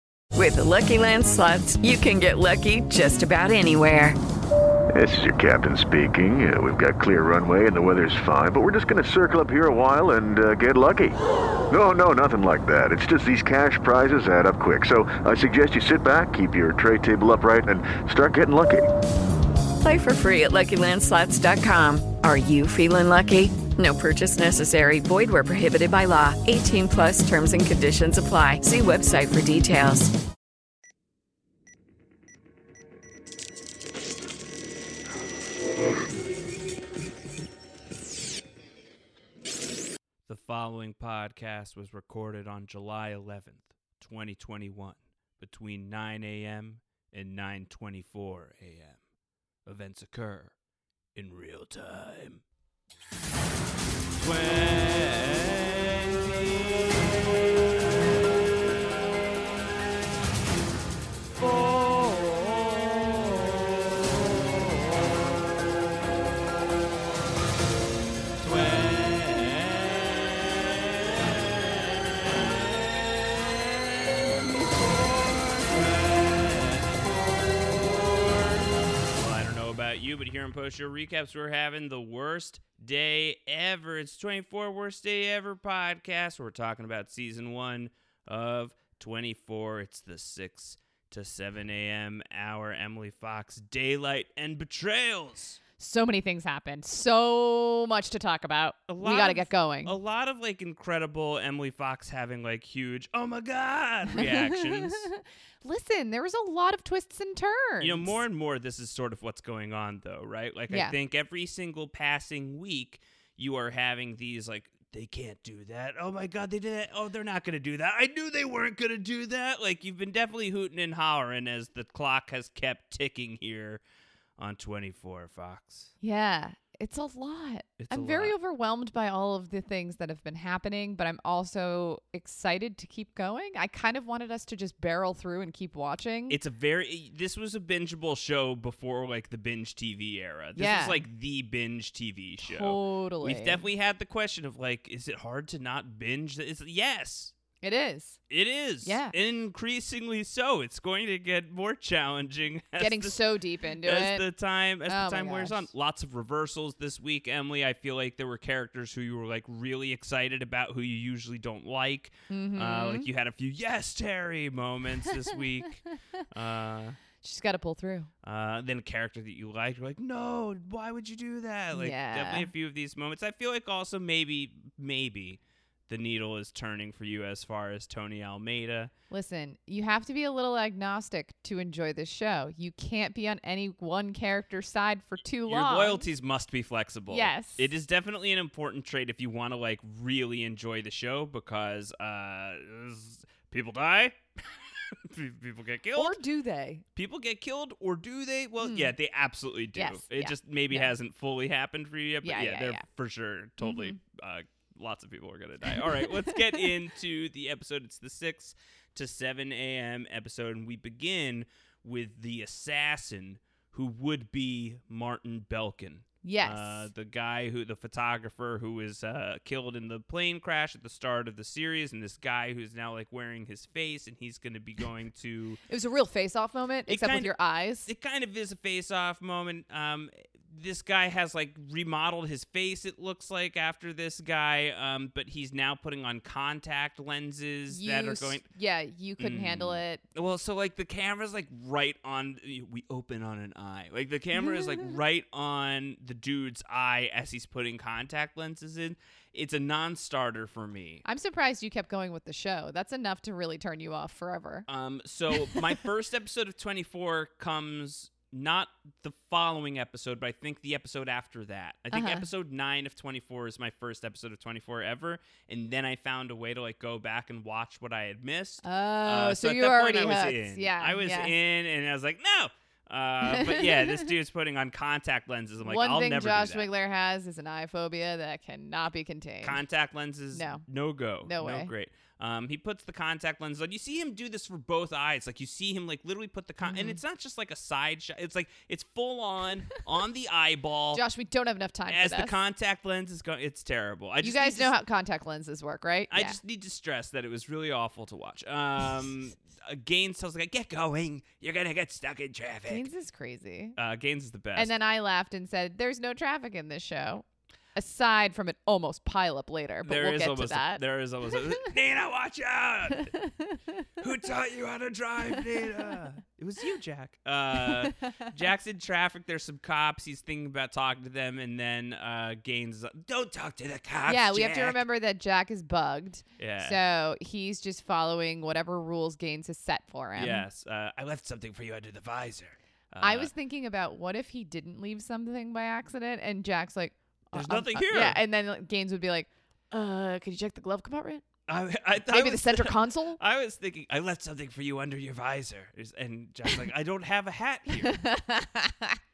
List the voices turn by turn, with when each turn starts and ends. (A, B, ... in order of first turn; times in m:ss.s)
0:00.3-0:04.2 A
0:04.9-0:11.2 B
0:11.7-0:18.9 B
0:19.8-0:30.1 A
0:40.3-0:49.0 C
0:49.6-0:50.5 C
0:51.1-0:52.4 C
0:54.2-0:58.1 C
1:01.4-1:05.2 C
1:08.4-1:35.6 C
1:35.8-1:40.0 D
1:38.9-1:45.1 C
1:44.1-1:48.1 D
1:47.8-2:03.8 C
1:50.7-1:51.0 D
2:04.4-2:05.9 C
2:06.0-2:16.4 D
2:07.8-2:08.3 C
2:16.3-2:27.3 C
2:20.6-2:21.0 D
2:22.4-2:23.6 D
2:27.6-2:28.2 D
2:28.3-2:33.2 C
2:28.8-2:29.1 D
2:32.8-2:34.2 D
2:33.8-2:47.0 C
2:34.9-2:35.6 D
2:42.3-2:43.0 D
2:47.2-2:48.1 D
2:48.2-2:58.9 C
2:51.7-2:52.5 D
2:59.1-3:06.1 D
3:05.5-3:14.2 C
3:07.1-3:07.7 D
3:14.9-3:16.2 C
3:15.9-3:16.8 D
3:17.0-3:45.6 C
3:18.6-3:18.9 D
3:19.8-3:20.9 D
3:22.2-3:22.8 D
3:23.6-3:24.0 D
3:25.9-3:26.6 D
3:36.2-3:36.9 D
3:45.7-3:47.9 D
3:46.9-3:47.3 C
3:47.8-3:58.4 C
3:57.7-4:00.0 D
3:59.2-4:11.0 C
4:11.0-4:14.6 D
4:14.7-4:36.7 C
4:21.9-4:22.3 D
4:28.6-4:31.3 D
4:33.2-4:34.1 D
4:35.6-4:39.6 D
4:39.4-4:51.0 C
4:40.3-4:40.6 D
4:41.2-4:41.7 D
4:46.6-4:47.0 D
4:50.9-4:52.3 D
4:51.9-4:54.7 C
4:54.2-4:56.4 D
4:56.1-5:02.9 C
5:02.7-5:03.8 D
5:03.8-5:04.7 C
5:04.5-5:10.8 D
5:09.8-5:13.1 C
5:13.0-5:13.8 D
5:14.0-5:24.8 C
5:24.0-5:30.4 D
5:26.4-5:26.8 C
5:30.2-5:33.3 C
5:33.0-5:41.2 D
5:37.3-5:38.2 C
5:41.5-5:48.0 C
5:42.0-5:43.2 D
5:47.8-5:49.0 D